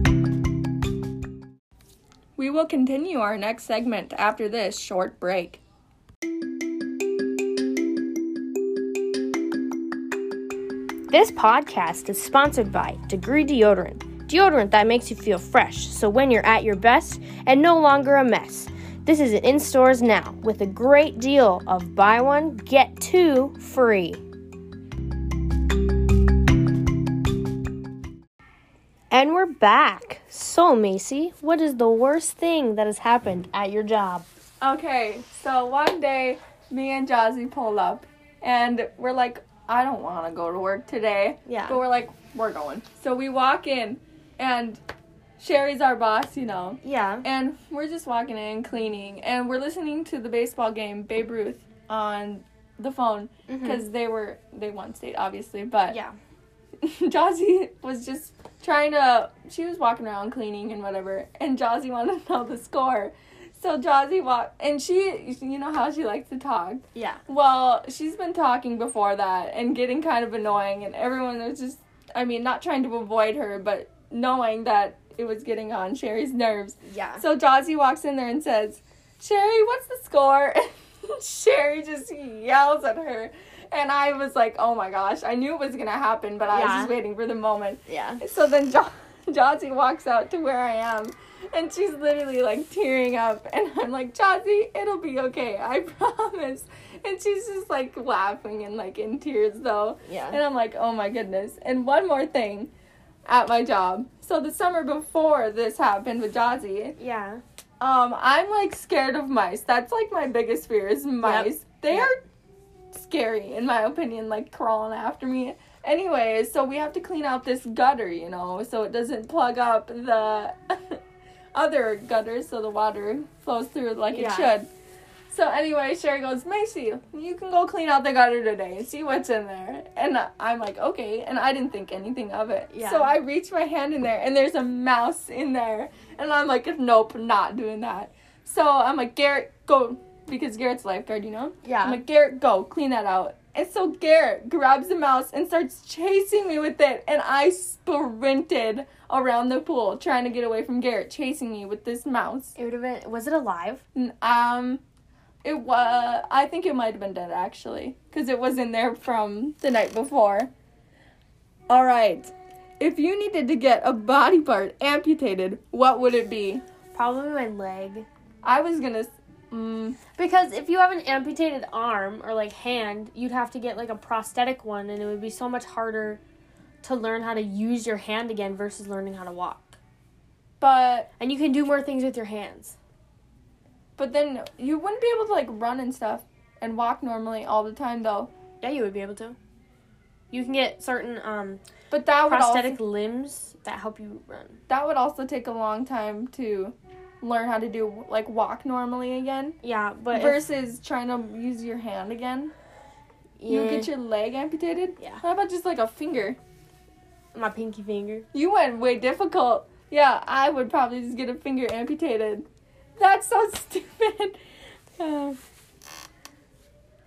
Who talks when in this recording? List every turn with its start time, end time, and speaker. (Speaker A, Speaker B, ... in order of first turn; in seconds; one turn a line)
Speaker A: 2.4-5.6
Speaker B: 11.1-24.2
Speaker B: 29.1-34.2
Speaker A: 34.6-44.8
Speaker B: 41.5-41.8
Speaker A: 45.4-56.0
Speaker B: 46.8-47.2
Speaker B: 53.5-53.8
Speaker B: 55.9-56.1
Speaker A: 56.8-102.7
Speaker B: 66.9-67.2
Speaker B: 76.9-77.2
Speaker B: 86.5-86.9
Speaker B: 87.9-88.2
Speaker B: 100.0-100.4
Speaker A: 103.2-107.0
Speaker B: 107.0-107.4
Speaker A: 107.8-112.2
Speaker B: 111.2-112.1
Speaker A: 112.9-121.0
Speaker A: 121.5-124.7
Speaker B: 124.1-124.5
Speaker A: 125.3-152.5
Speaker B: 132.7-133.1
Speaker B: 141.6-142.0
Speaker B: 152.6-153.8
Speaker A: 153.9-154.8
Speaker A: 155.4-160.5
Speaker A: 161.7-166.6
Speaker B: 166.9-168.1
Speaker A: 168.4-170.0
Speaker B: 170.1-176.2
Speaker B: 176.8-179.8
Speaker A: 180.6-181.1
Speaker B: 181.2-182.8
Speaker A: 184.0-188.3
Speaker B: 188.6-189.3
Speaker B: 190.3-191.6
Speaker A: 191.9-192.8
Speaker B: 192.3-194.6
Speaker A: 194.7-199.6
Speaker B: 199.6-200.4
Speaker A: 200.1-202.5
Speaker B: 203.4-203.9
Speaker A: 203.5-206.4
Speaker B: 207.3-208.2
Speaker A: 208.3-212.4
Speaker A: 213.0-214.3
Speaker B: 215.0-215.4